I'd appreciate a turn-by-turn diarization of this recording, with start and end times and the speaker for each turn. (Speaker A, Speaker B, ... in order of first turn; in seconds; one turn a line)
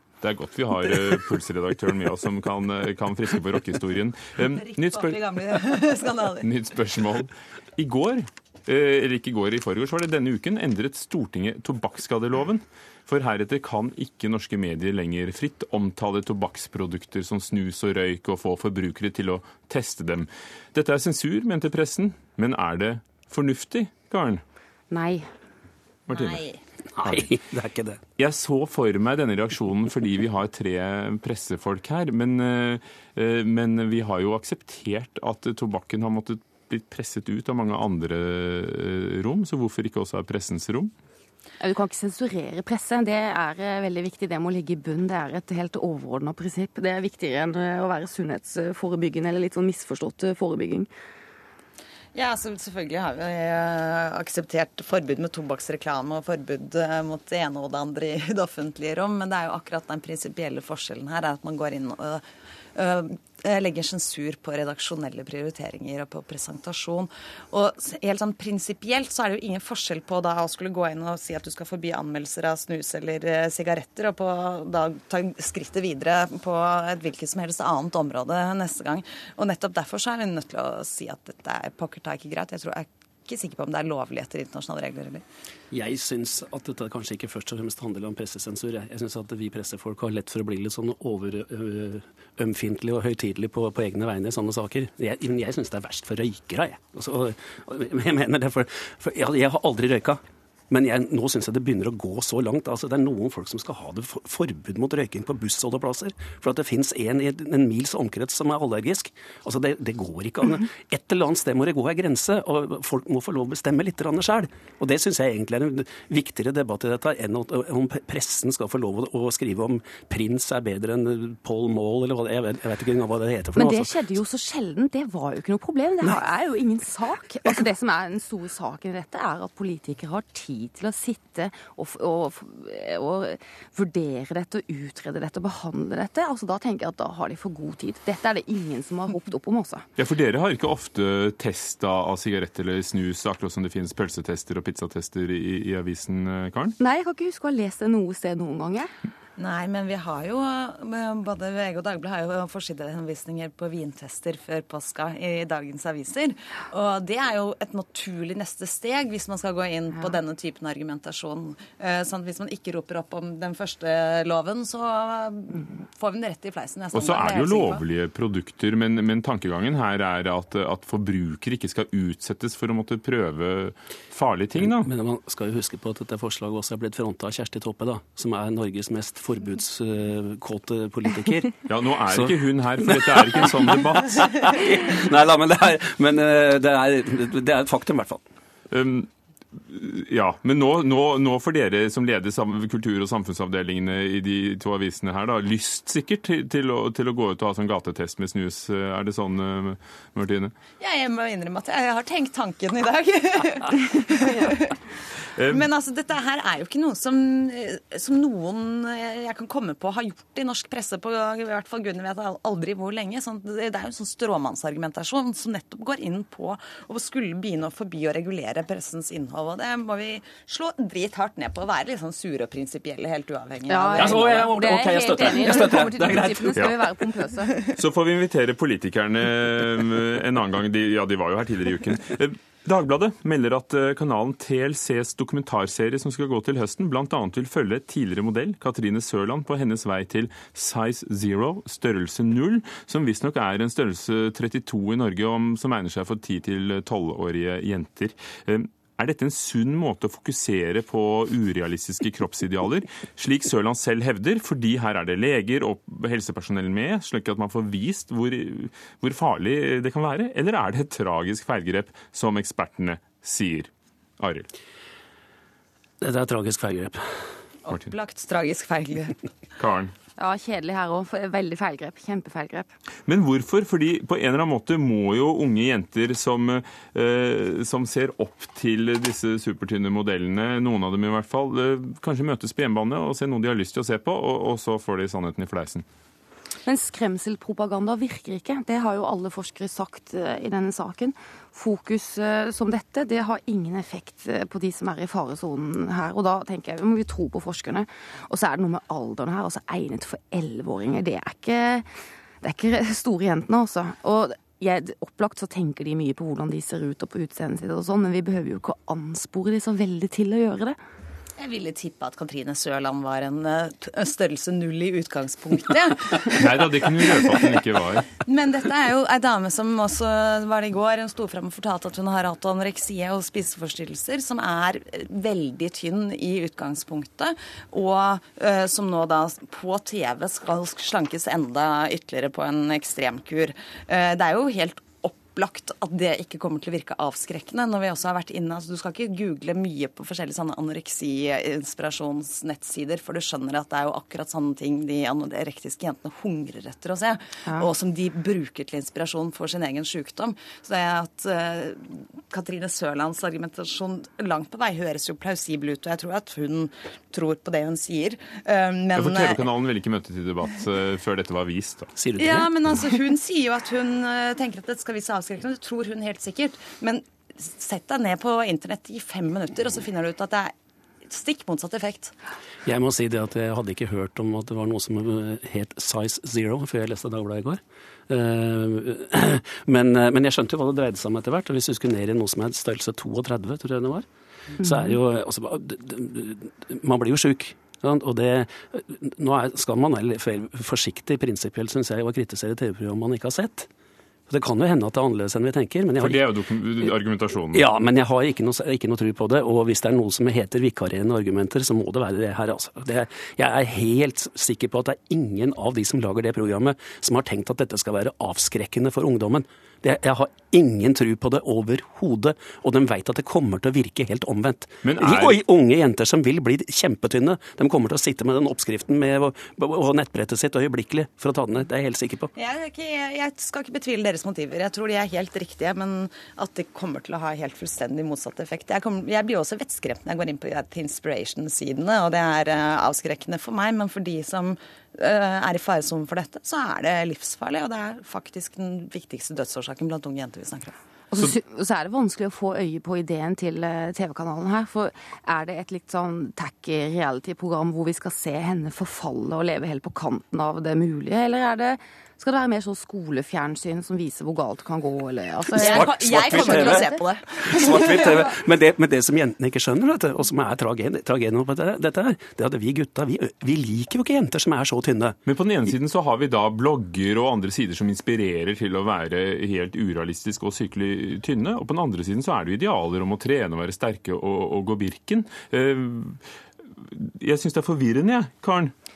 Speaker A: 0.2-5.2
Speaker B: 4.5-6.5
Speaker A: 6.4-24.4
Speaker C: 24.9-25.2
Speaker A: 26.1-26.4
Speaker B: 26.1-26.6
Speaker D: 26.9-28.0
Speaker A: 28.2-40.9
Speaker C: 41.6-50.9
Speaker B: 52.1-62.2
Speaker B: 62.7-85.2
Speaker D: 85.7-124.0
Speaker C: 123.5-139.8
Speaker A: 140.0-146.8
Speaker C: 146.8-148.9
Speaker B: 149.4-167.8
Speaker A: 166.9-174.9
Speaker D: 174.6-181.6
Speaker A: 181.7-184.2
Speaker D: 182.1-188.2
Speaker A: 188.7-200.5
Speaker B: 200.8-204.8
Speaker A: 205.4-205.7
Speaker B: 205.5-224.5
Speaker C: 223.7-227.6
Speaker D: 223.9-226.6
Speaker A: 227.6-264.5
Speaker D: 266.0-267.2
Speaker B: 267.6-269.2
Speaker A: 269.6-269.9
Speaker C: 270.2-272.7
Speaker A: 273.1-285.8
Speaker C: 286.6-301.9
Speaker C: 302.4-310.8
Speaker B: 311.4-317.5
Speaker A: 316.4-318.1
Speaker B: 318.2-359.5
Speaker A: 358.9-361.9
Speaker D: 362.0-362.5
Speaker B: 362.2-370.5
Speaker B: 371.1-372.1
Speaker D: 372.6-393.7
Speaker C: 384.6-384.9
Speaker D: 394.3-396.3
Speaker A: 396.0-397.6
Speaker D: 397.5-422.3
Speaker A: 414.8-415.4
Speaker B: 422.3-440.8
Speaker C: 441.1-457.0
Speaker B: 455.6-458.2
Speaker D: 455.6-456.9
Speaker D: 457.4-465.2
Speaker A: 465.2-476.2
Speaker A: 476.8-478.7